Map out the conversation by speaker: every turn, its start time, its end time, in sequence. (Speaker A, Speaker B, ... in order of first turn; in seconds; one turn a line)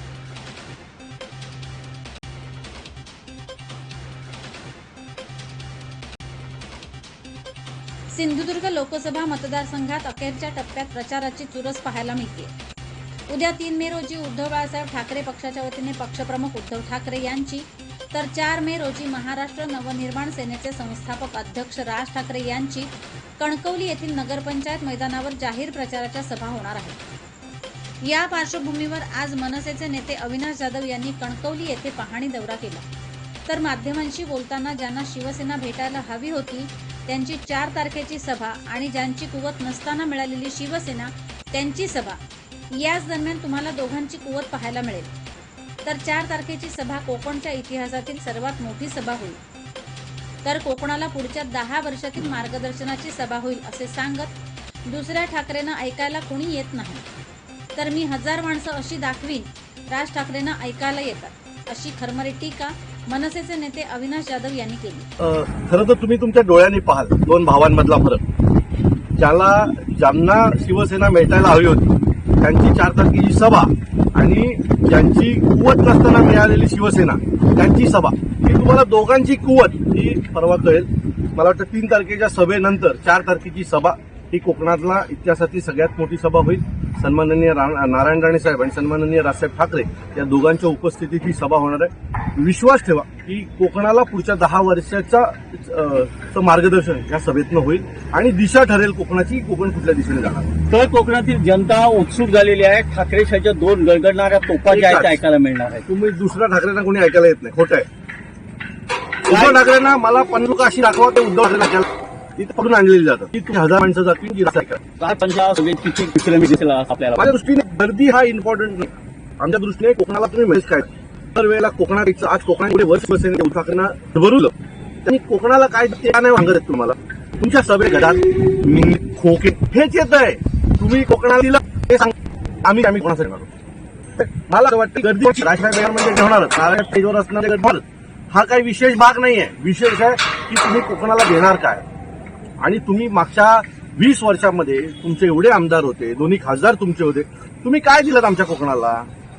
Speaker A: 8.1-12.5
Speaker A: 13.3-27.0
Speaker A: 28.0-32.8
Speaker A: 33.5-42.2
Speaker A: 42.7-45.1
Speaker A: 45.8-49.4
Speaker A: 50.4-54.3
Speaker A: 54.9-57.0
Speaker A: 57.8-65.1
Speaker B: 65.2-68.2
Speaker B: 69.2-100.5
Speaker C: 100.7-105.8
Speaker B: 104.7-105.2
Speaker B: 105.8-107.9
Speaker B: 109.2-114.8
Speaker C: 109.3-109.6
Speaker C: 115.0-117.3
Speaker B: 117.1-133.5
Speaker B: 134.2-141.8
Speaker B: 142.6-149.1